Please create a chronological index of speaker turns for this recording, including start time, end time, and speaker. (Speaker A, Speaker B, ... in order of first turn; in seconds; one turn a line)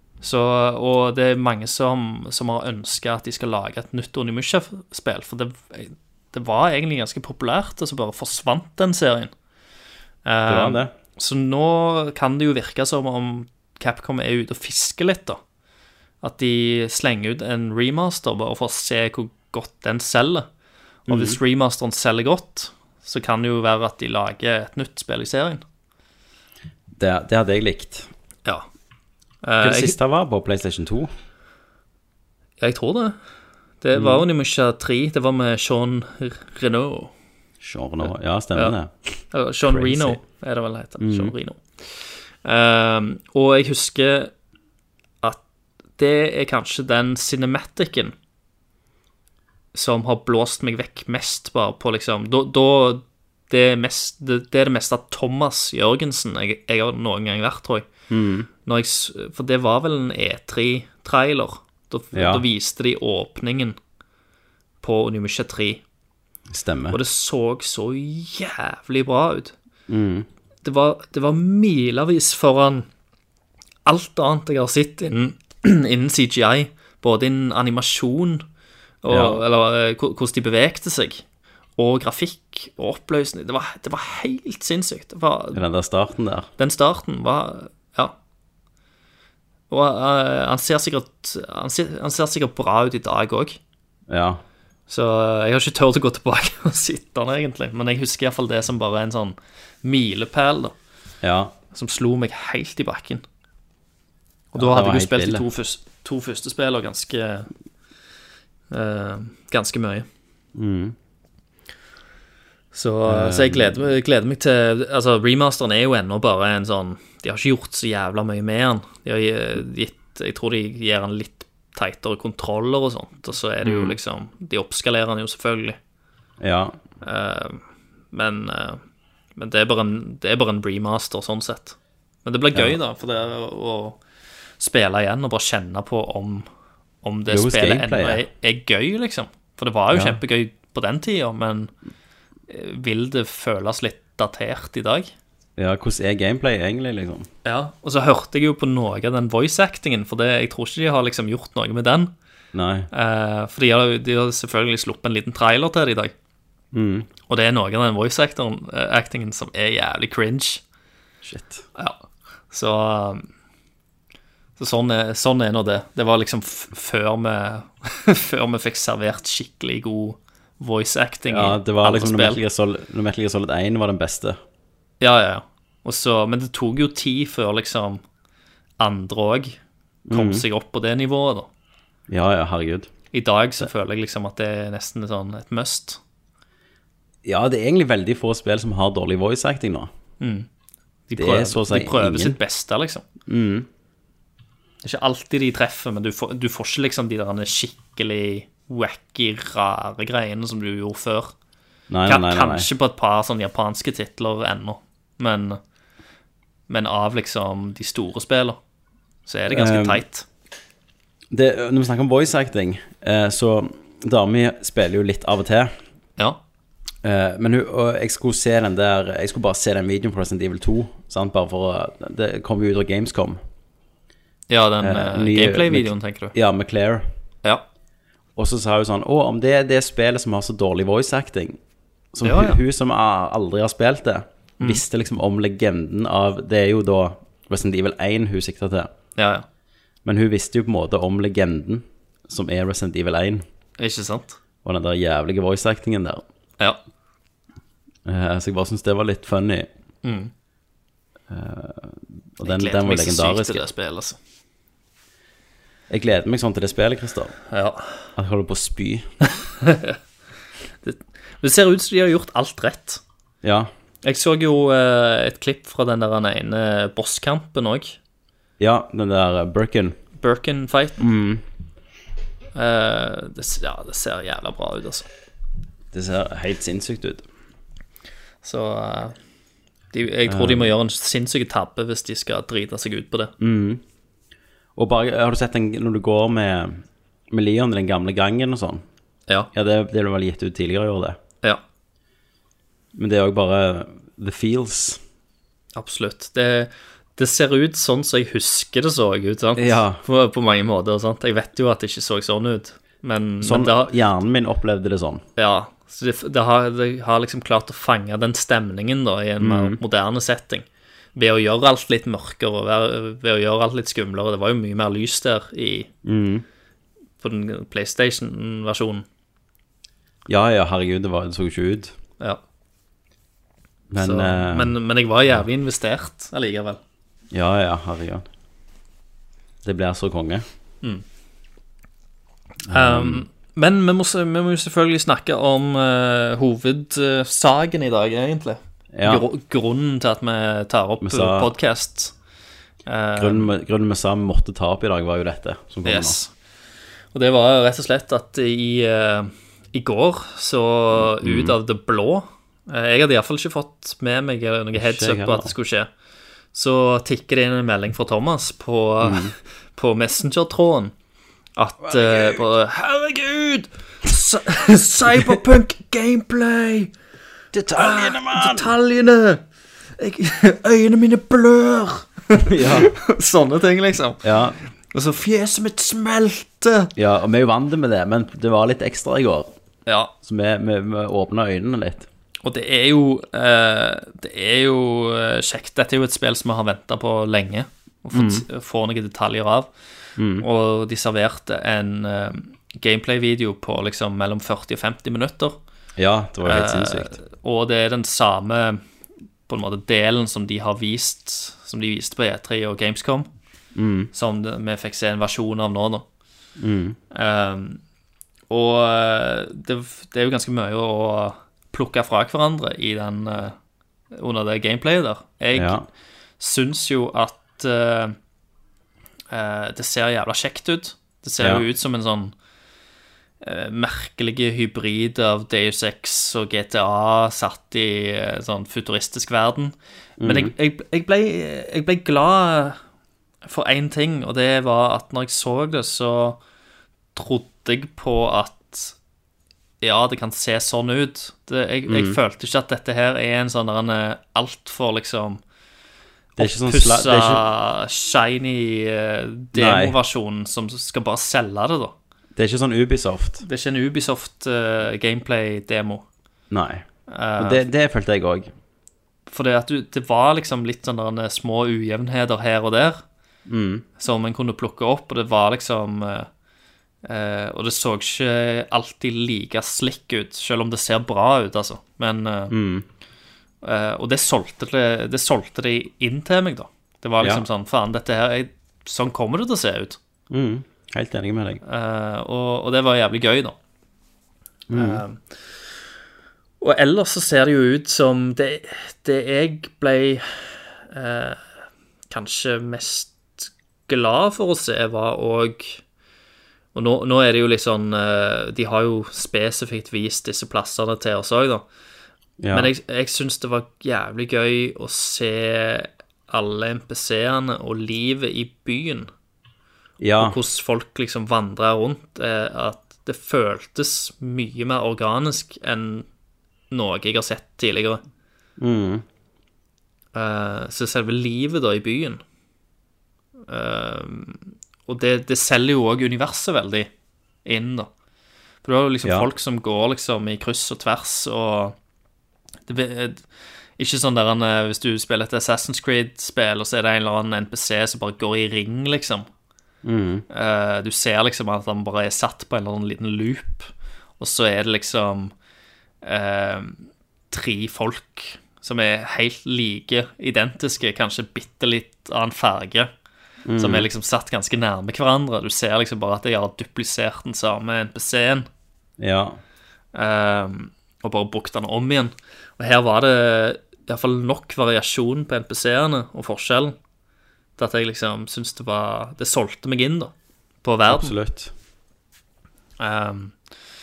Speaker A: 0.2-9.3
Speaker A: 10.2-15.4
Speaker B: 10.5-10.9
Speaker A: 16.2-20.5
Speaker A: 21.1-25.6
Speaker B: 21.1-21.4
Speaker B: 26.9-28.1
Speaker A: 29.4-30.0
Speaker B: 29.6-31.1
Speaker A: 32.6-33.2
Speaker A: 33.8-37.1
Speaker B: 34.0-34.2
Speaker B: 37.6-40.2
Speaker A: 39.3-44.3
Speaker B: 41.0-41.3
Speaker A: 46.0-48.1
Speaker A: 49.7-57.9
Speaker B: 58.1-58.5
Speaker A: 58.6-63.8
Speaker B: 62.1-62.4
Speaker A: 64.8-65.8
Speaker B: 66.5-67.0
Speaker A: 66.9-69.5
Speaker B: 69.9-70.3
Speaker A: 70.6-72.9
Speaker A: 73.8-78.4
Speaker A: 79.0-81.2
Speaker B: 79.1-79.4
Speaker A: 81.8-85.6
Speaker B: 85.5-86.5
Speaker A: 86.6-88.2
Speaker A: 89.7-93.6
Speaker B: 94.1-94.4
Speaker A: 94.9-100.7
Speaker B: 101.2-101.5
Speaker A: 101.7-103.2
Speaker A: 104.5-107.5
Speaker B: 104.5-105.5
Speaker A: 108.7-110.1
Speaker B: 110.5-111.0
Speaker A: 112.7-125.8
Speaker B: 113.1-113.8
Speaker B: 123.6-124.0
Speaker B: 126.4-126.8
Speaker A: 127.0-128.8
Speaker A: 129.4-134.0
Speaker A: 134.6-136.5
Speaker A: 137.0-141.7
Speaker B: 137.3-138.2
Speaker B: 139.9-140.2
Speaker A: 142.5-145.1
Speaker B: 145.6-147.3
Speaker A: 147.4-152.1
Speaker B: 152.5-152.9
Speaker A: 152.9-156.1
Speaker B: 156.7-157.1
Speaker A: 157.3-160.6
Speaker B: 161.2-161.6
Speaker A: 161.8-163.3
Speaker A: 164.6-172.4
Speaker B: 171.3-174.4
Speaker A: 175.0-178.0
Speaker A: 178.8-179.6
Speaker B: 180.1-180.4
Speaker A: 180.1-181.5
Speaker B: 182.1-182.9
Speaker A: 183.1-186.0
Speaker B: 187.2-189.9
Speaker A: 190.2-190.5
Speaker A: 191.1-193.0
Speaker B: 191.2-192.4
Speaker B: 193.3-193.7
Speaker A: 194.8-201.3
Speaker B: 201.9-202.7
Speaker A: 202.1-205.6
Speaker A: 206.7-208.6
Speaker A: 209.3-210.3
Speaker B: 209.5-210.0
Speaker B: 211.3-215.7
Speaker B: 217.0-223.4
Speaker A: 224.5-226.3
Speaker B: 224.8-227.1
Speaker B: 228.4-231.6
Speaker B: 232.1-238.9
Speaker A: 232.2-232.6
Speaker A: 239.2-239.5
Speaker B: 240.1-243.4
Speaker A: 243.8-244.4
Speaker B: 244.6-246.2
Speaker B: 248.1-249.7
Speaker A: 250.0-250.3
Speaker B: 251.3-253.7
Speaker A: 252.4-254.2
Speaker B: 255.9-257.4
Speaker A: 257.5-258.0
Speaker B: 258.2-259.1
Speaker A: 259.4-260.0
Speaker A: 260.8-263.0
Speaker B: 263.4-263.7
Speaker A: 264.0-268.0
Speaker B: 268.6-270.0
Speaker A: 270.2-271.0
Speaker B: 271.0-271.4
Speaker A: 272.6-275.1
Speaker B: 275.9-277.2
Speaker A: 278.4-279.2
Speaker A: 279.9-283.3
Speaker B: 280.3-280.7
Speaker B: 283.4-283.8
Speaker B: 284.8-288.8
Speaker B: 289.5-291.2
Speaker B: 293.0-295.0
Speaker A: 295.8-303.9
Speaker B: 299.6-300.0
Speaker B: 303.4-305.2
Speaker A: 305.4-315.9
Speaker B: 309.4-309.8
Speaker B: 316.1-316.4
Speaker A: 317.2-319.1
Speaker B: 320.3-321.9
Speaker B: 323.9-324.7
Speaker A: 324.0-326.8
Speaker B: 327.3-328.2
Speaker B: 329.6-330.4
Speaker B: 332.7-333.2
Speaker A: 332.7-342.1
Speaker B: 338.9-339.3
Speaker B: 341.0-341.5
Speaker A: 342.9-343.5
Speaker B: 343.2-346.2
Speaker A: 345.9-346.3
Speaker A: 347.1-355.9
Speaker B: 350.9-351.6
Speaker B: 354.8-355.5
Speaker A: 356.5-360.9
Speaker B: 359.0-359.3
Speaker A: 361.6-366.9
Speaker B: 361.9-362.4
Speaker B: 367.5-368.7
Speaker A: 367.7-369.4
Speaker A: 370.0-376.9
Speaker B: 372.4-372.9
Speaker B: 374.2-374.6
Speaker B: 377.0-379.5
Speaker A: 379.9-380.1
Speaker B: 380.2-382.1
Speaker A: 382.4-389.7
Speaker B: 388.1-388.4
Speaker B: 390.2-390.4
Speaker A: 390.4-395.6
Speaker B: 396.0-397.2
Speaker A: 396.4-398.8
Speaker A: 399.5-403.3
Speaker B: 403.8-404.1
Speaker A: 404.1-406.1
Speaker B: 406.6-407.0
Speaker A: 407.1-407.8
Speaker A: 408.5-413.6
Speaker A: 414.1-415.8
Speaker B: 415.6-415.9
Speaker A: 416.4-418.2
Speaker A: 419.3-422.3
Speaker B: 421.4-421.6
Speaker A: 423.4-432.8
Speaker B: 430.2-430.5
Speaker A: 433.5-436.4
Speaker A: 437.1-438.9
Speaker A: 439.8-445.4
Speaker B: 441.9-442.2
Speaker A: 446.4-451.9
Speaker B: 446.4-447.5
Speaker B: 449.5-450.0
Speaker B: 452.4-453.4
Speaker A: 453.4-456.1
Speaker B: 456.5-456.9
Speaker A: 457.1-457.6
Speaker B: 457.4-458.5
Speaker A: 459.3-463.0
Speaker B: 463.5-463.9
Speaker A: 464.0-466.3
Speaker A: 467.1-472.5
Speaker B: 472.5-472.9
Speaker A: 473.6-480.0
Speaker B: 480.3-481.6
Speaker A: 481.6-483.6
Speaker B: 484.7-485.0
Speaker A: 484.7-485.2
Speaker A: 486.6-491.4
Speaker A: 492.1-495.8
Speaker A: 496.7-501.6
Speaker B: 502.4-502.7
Speaker A: 502.5-509.1
Speaker B: 510.0-510.4
Speaker A: 510.2-516.1
Speaker A: 516.7-518.0
Speaker B: 518.6-519.0
Speaker A: 520.1-522.2
Speaker A: 523.5-526.9
Speaker A: 527.5-527.9
Speaker A: 528.6-531.8
Speaker A: 532.7-533.2
Speaker A: 533.8-539.3
Speaker B: 539.8-540.3
Speaker A: 540.3-545.3
Speaker A: 546.0-552.9
Speaker B: 553.5-553.9
Speaker A: 553.6-558.5
Speaker B: 559.0-559.4
Speaker A: 559.9-566.8
Speaker A: 567.6-570.1
Speaker A: 570.6-571.2
Speaker B: 570.9-571.5
Speaker A: 572.8-573.4